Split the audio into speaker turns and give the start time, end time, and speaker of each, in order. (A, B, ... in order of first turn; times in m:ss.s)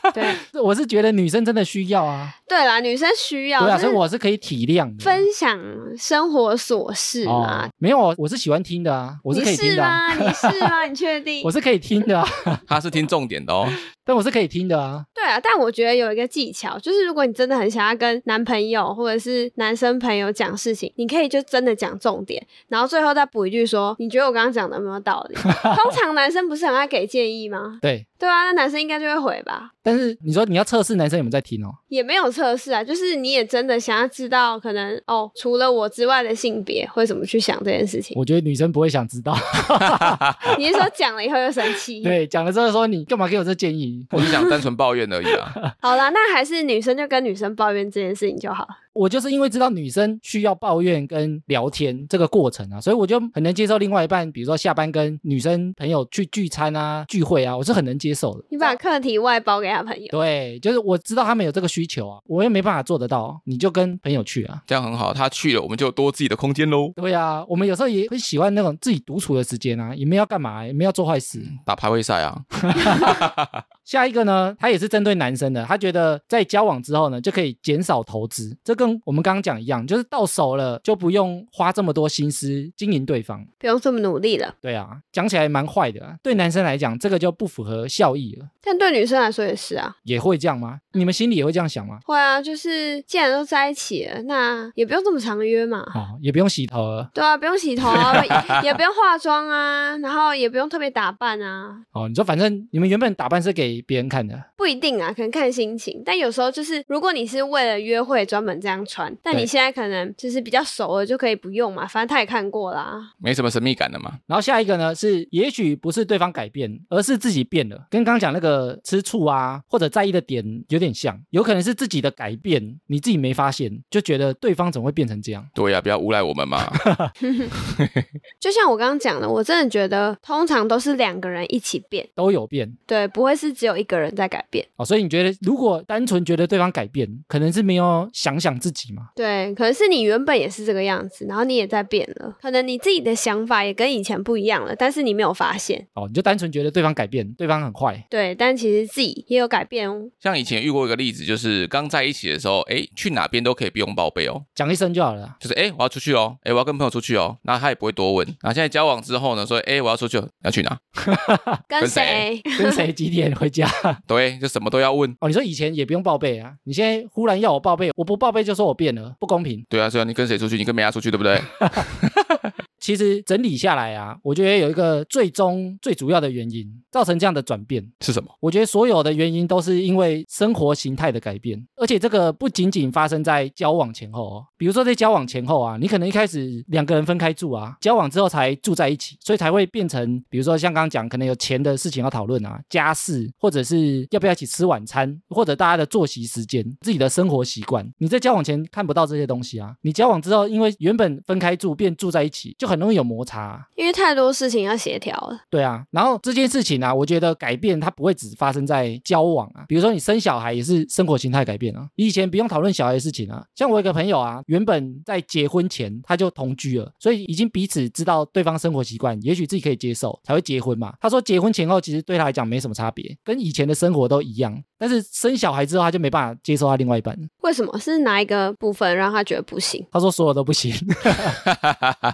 0:00.1-0:00.4 A
0:00.4-0:02.3 B
0:02.5-0:04.0 A
0:03.6-0:05.2 B
0:05.0-0:07.7 A
0:07.2-0:10.8 B
0:09.3-0:11.5 A
0:11.4-0:12.6 B
0:12.7-0:13.8 C
0:14.0-0:15.0 B
0:15.2-0:29.7 A
0:29.8-0:31.8 B
0:31.9-0:38.2 A
0:38.1-0:40.6 B
0:39.8-0:40.3 C
0:40.4-0:42.1 A
0:42.0-0:44.3 B
0:44.1-0:45.6 C
0:45.8-0:48.8 A
0:48.9-0:58.8 B
0:58.5-1:00.1 A
1:00.1-1:04.6 B
1:04.7-1:06.9 C
1:07.0-1:11.5 B
1:11.5-1:13.6 C
1:12.7-1:13.2 B
1:13.8-1:23.5 B
1:23.6-1:24.5 A
1:24.6-1:28.5 B
1:28.6-1:29.9 A
1:30.0-1:32.0 B
1:32.1-1:36.0 A
1:35.9-1:37.1 B
1:37.1-1:41.8 A
1:41.9-1:44.4 B
1:44.6-1:53.1 A
1:53.2-1:54.2 C
1:54.3-2:05.5 B
2:05.5-2:06.8 C
2:06.7-2:07.1 B
2:07.2-2:07.5 A
2:07.8-2:08.0 C
2:08.4-2:12.1 A
2:12.2-2:12.8 B
2:12.9-2:14.7 A
2:14.8-2:19.1 B
2:19.2-2:25.8 A
2:26.0-2:28.0 B
2:28.1-2:30.1 A
2:30.2-2:34.4 C
2:34.6-2:35.4 B
2:35.4-2:40.8 C
2:41.0-2:41.6 B
2:41.7-2:42.8 A
2:41.8-2:42.2 C
2:42.6-2:44.0 B
2:44.1-2:45.2 C
2:45.2-2:49.6 B
2:49.7-2:52.4 C
2:52.8-3:23.6 B
2:58.0-2:58.3 C
3:23.8-3:25.4 A
3:25.5-3:47.3 B
3:47.4-3:49.8 A
3:49.9-3:51.4 B
3:51.7-3:51.9 C